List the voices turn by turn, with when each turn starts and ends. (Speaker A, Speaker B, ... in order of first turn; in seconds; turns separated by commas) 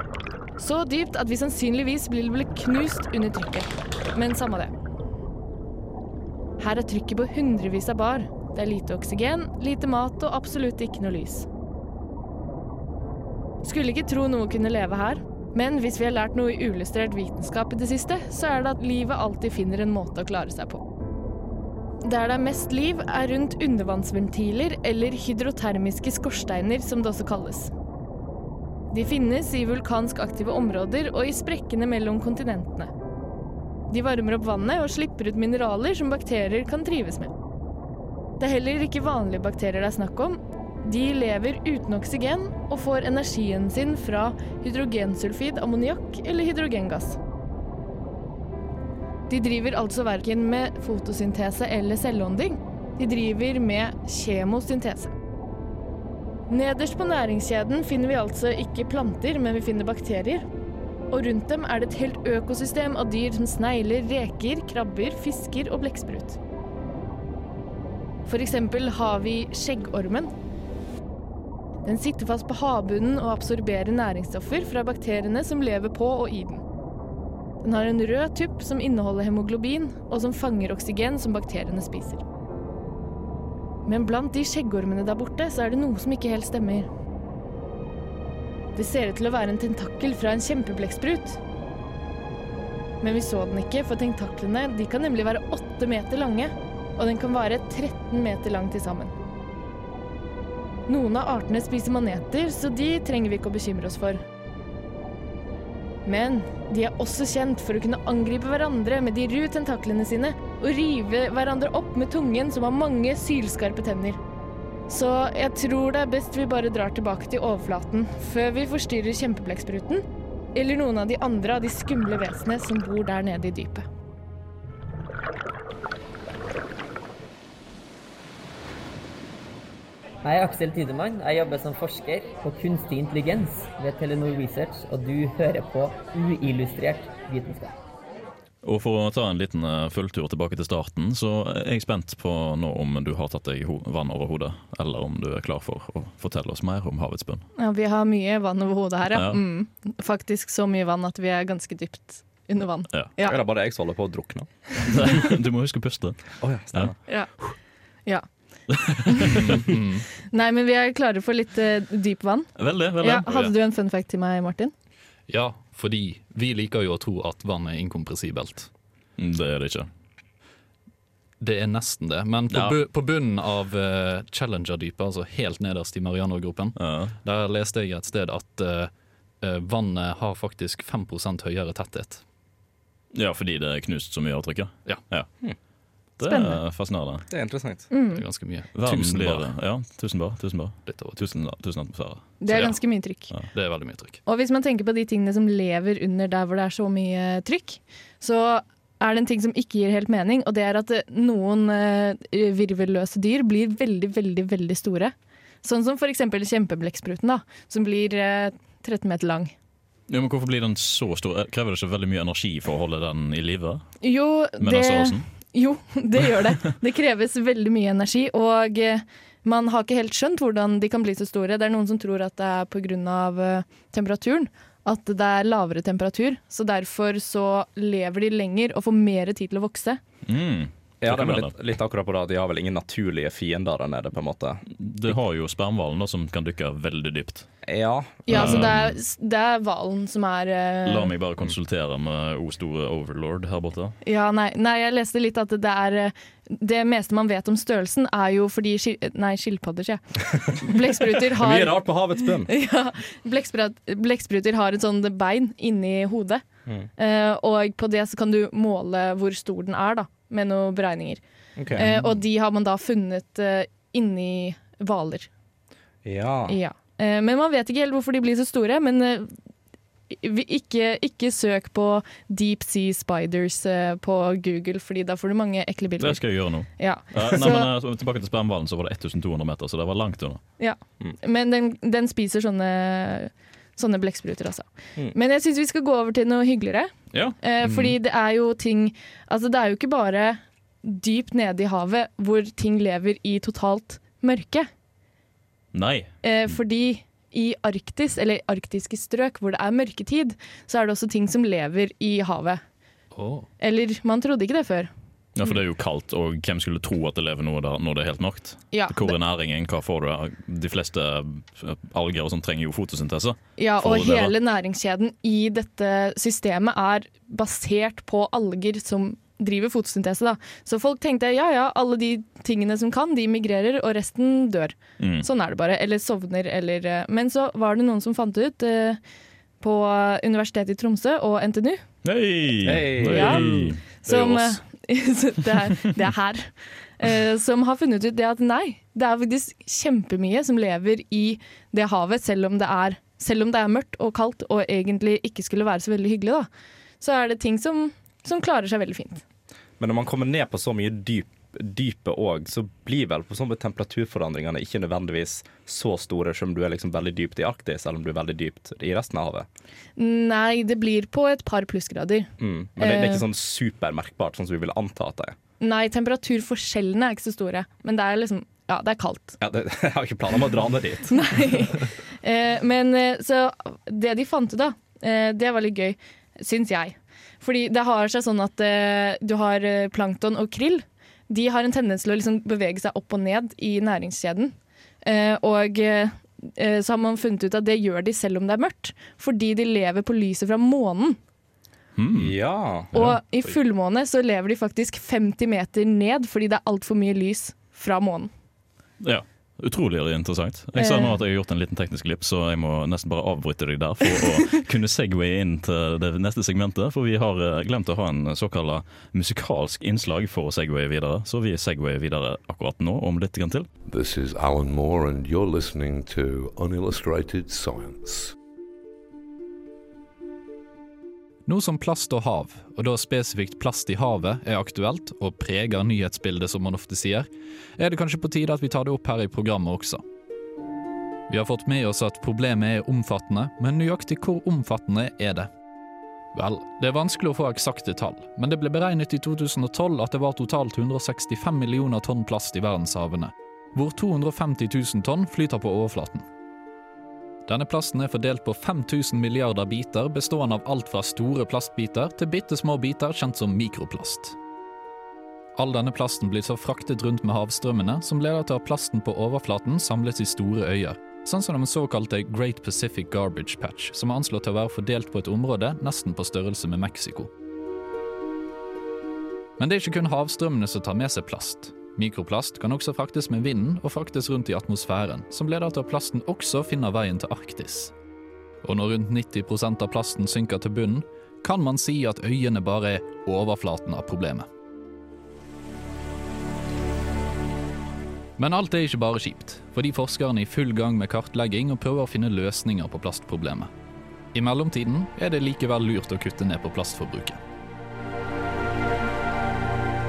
Speaker A: 0.6-4.7, Speaker A: 6.6-11.4, Speaker A: 13.6-20.8, Speaker A: 22.0-27.7, Speaker A: 28.9-32.9, Speaker A: 33.9-37.3, Speaker A: 38.4-47.2, Speaker A: 49.3-55.1, Speaker A: 56.5-60.4, Speaker A: 61.1-66.4, Speaker A: 68.2-70.3, Speaker A: 71.8-76.6, Speaker A: 77.6-82.2, Speaker A: 83.8-86.9, Speaker A: 88.7-91.4, Speaker A: 93.0-99.1, Speaker A: 100.9-104.2, Speaker A: 106.0-114.2, Speaker A: 114.9-120.0, Speaker A: 120.5-123.8, Speaker B: 130.2-137.8, Speaker C: 138.6-147.4, Speaker A: 147.6-153.4, Speaker C: 149.1-149.4, Speaker D: 153.2-154.9, Speaker C: 154.8-156.9, Speaker D: 156.4-156.9, Speaker C: 158.7-159.4, Speaker A: 159.1-159.6, Speaker E: 159.3-160.0, Speaker A: 160.3-164.7, Speaker C: 162.6-163.3, Speaker E: 165.3-168.7, Speaker C: 169.2-169.9, Speaker E: 171.4-178.9, Speaker C: 172.5-172.8, Speaker C: 176.8-177.1, Speaker E: 179.4-182.2, Speaker C: 183.1-185.3, Speaker C: 186.2-187.2, Speaker A: 186.2-186.6, Speaker D: 187.3-187.9, Speaker A: 187.9-188.2, Speaker E: 188.1-189.5, Speaker C: 188.7-192.7, Speaker E: 190.8-191.2, Speaker A: 192.4-193.3, Speaker E: 193.5-194.2, Speaker A: 194.2-209.5, Speaker C: 210.1-213.8, Speaker A: 214.0-230.0, Speaker C: 214.6-215.2, Speaker C: 230.2-231.5, Speaker D: 231.0-234.6, Speaker C: 234.7-237.5, Speaker D: 237.6-238.8, Speaker A: 238.3-241.1, Speaker C: 238.3-238.9, Speaker C: 240.8-243.9, Speaker A: 244.0-256.4, Speaker D: 251.0-252.5, Speaker A: 257.0-261.2, Speaker D: 261.6-261.9, Speaker A: 261.7-265.3, Speaker D: 266.0-266.6, Speaker A: 266.5-269.3, Speaker A: 270.1-276.2, Speaker C: 276.0-280.4, Speaker A: 276.8-277.7, Speaker A: 280.6-294.7, Speaker C: 287.1-287.9, Speaker C: 295.7-296.1, Speaker A: 296.2-302.6, Speaker E: 303.1-303.5, Speaker A: 303.6-304.9, Speaker C: 305.4-314.3, Speaker A: 308.7-309.1, Speaker A: 313.6-329.0, Speaker C: 325.0-325.2, Speaker A: 329.6-331.8, Speaker C: 332.0-333.9, Speaker D: 332.6-333.8, Speaker A: 333.1-346.5, Speaker A: 347.0-349.2, Speaker D: 349.8-359.5, Speaker A: 360.0-363.2, Speaker D: 362.4-365.4, Speaker A: 365.6-369.4, Speaker D: 369.4-371.2, Speaker A: 371.1-391.2, Speaker C: 392.0-392.3, Speaker D: 392.1-392.9, Speaker C: 392.9-393.2, Speaker A: 392.9-398.3, Speaker C: 399.0-413.7, Speaker A: 400.8-401.2, Speaker F: 413.9-418.4, Speaker E: 421.4-427.3, Speaker E: 427.8-430.0, Speaker E: 431.3-435.5, Speaker E: 436.3-446.2, Speaker E: 447.5-454.4, Speaker E: 455.6-467.3, Speaker E: 469.6-477.9, Speaker E: 478.6-484.5, Speaker E: 488.4-493.7, Speaker E: 494.3-497.4